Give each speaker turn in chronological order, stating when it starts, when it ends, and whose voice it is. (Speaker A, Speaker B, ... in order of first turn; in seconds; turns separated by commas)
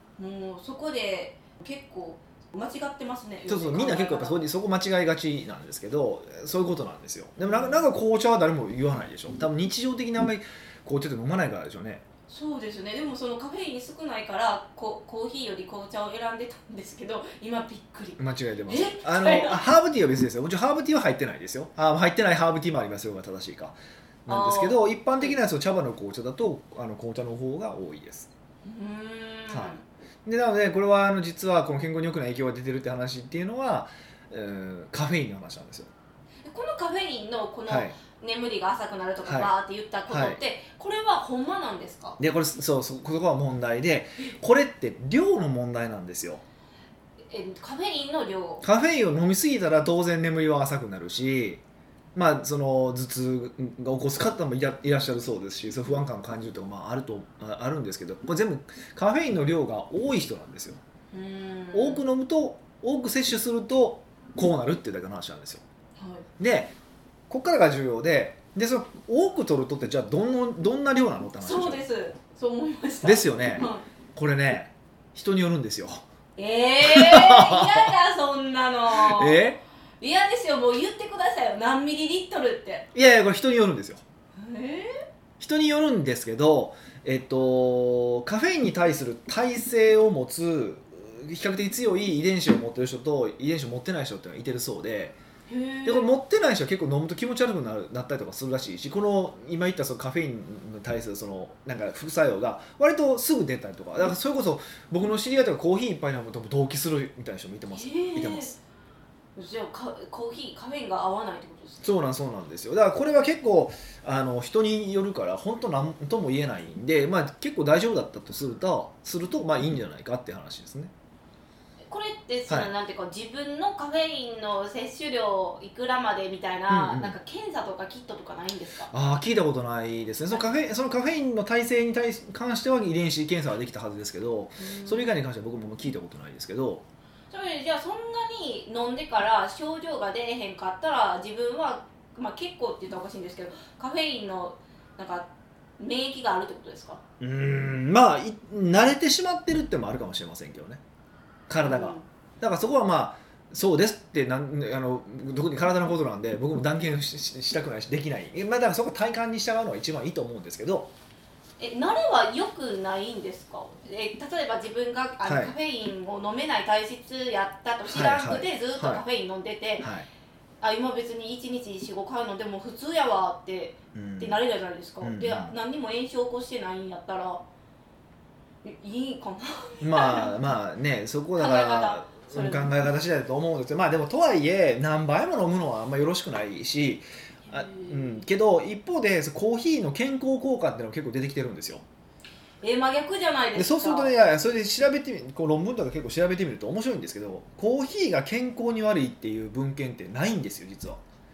Speaker A: 0.2-4.5, Speaker B: 3.5-12.0, Speaker A: 7.4-7.8, Speaker A: 12.3-19.6, Speaker B: 18.2-28.3, Speaker A: 24.3-25.3, Speaker A: 28.6-29.8, Speaker B: 29.5-35.9, Speaker A: 36.4-42.2, Speaker B: 37.7-38.0, Speaker B: 39.2-39.5, Speaker B: 40.1-40.4, Speaker B: 42.2-46.4, Speaker A: 47.3-48.6, Speaker B: 48.6-51.6, Speaker B: 52.1-60.8, Speaker A: 61.1-62.0, Speaker B: 61.7-65.6, Speaker A: 66.0-66.2, Speaker B: 66.4-66.7, Speaker B: 67.3-71.8, Speaker A: 71.4-73.8, Speaker B: 73.0-76.0, Speaker A: 76.4-82.9, Speaker B: 76.8-77.9, Speaker B: 78.9-79.6, Speaker B: 82.9-84.0, Speaker A: 84.4-85.0, Speaker B: 85.4-95.2, Speaker A: 95.5-96.1, Speaker B: 95.8-108.6, Speaker A: 107.7-108.6, Speaker A: 109.4-111.9, Speaker B: 111.8-120.9, Speaker A: 121.9-128.9, Speaker B: 126.7-127.2, Speaker B: 128.9-136.8, Speaker A: 134.6-135.1, Speaker A: 137.3-147.0, Speaker B: 147.2-150.8, Speaker B: 151.5-160.9, Speaker A: 151.6-152.1, Speaker A: 161.6-169.9, Speaker B: 165.2-165.5, Speaker B: 167.8-169.0, Speaker B: 169.8-170.1, Speaker A: 170.6-177.4, Speaker B: 173.9-174.4, Speaker B: 175.0-175.6, Speaker A: 178.6-180.4, Speaker B: 179.8-191.8, Speaker A: 181.4-182.7, Speaker A: 187.5-188.2, Speaker A: 192.6-194.1, Speaker B: 193.6-201.0